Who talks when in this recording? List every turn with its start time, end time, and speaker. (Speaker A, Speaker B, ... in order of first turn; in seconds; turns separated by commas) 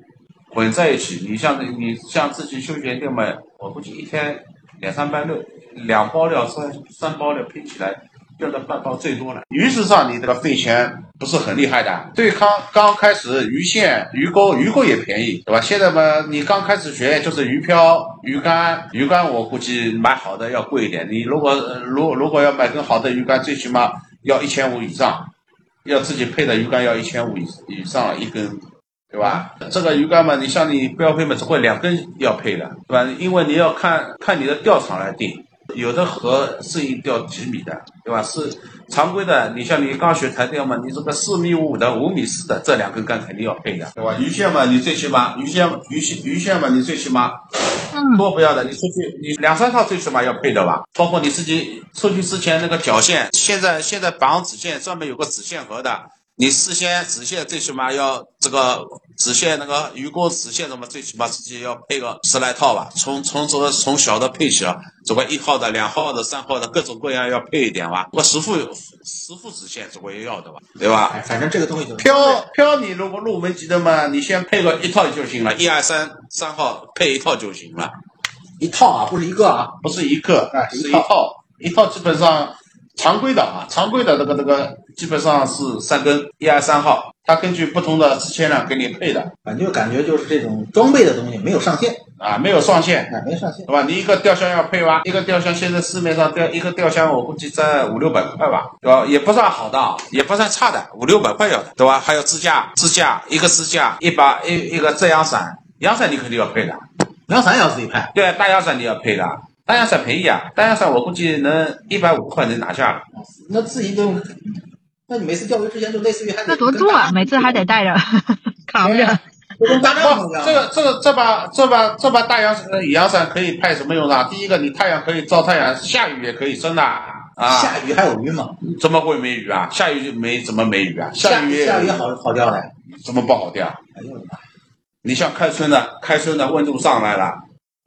Speaker A: 0.5-25.3, Speaker A: 25.9-47.4, Speaker B: 47.9-48.2, Speaker A: 48.1-71.2, Speaker C: 71.1-72.5, Speaker A: 72.0-78.0, Speaker C: 78.6-79.8, Speaker A: 79.8-89.3, Speaker C: 80.5-81.1, Speaker C: 89.5-92.0, Speaker A: 92.2-93.1, Speaker C: 93.1-93.7, Speaker A: 93.7-106.8, Speaker C: 107.3-108.1, Speaker A: 108.1-113.0, Speaker C: 113.1-117.7, Speaker B: 116.5-119.2, Speaker A: 118.8-127.8, Speaker C: 119.6-120.7, Speaker C: 127.5-128.5, Speaker A: 128.6-132.1, Speaker C: 131.2-132.7, Speaker A: 132.9-133.8, Speaker C: 134.0-134.4, Speaker A: 135.0-137.4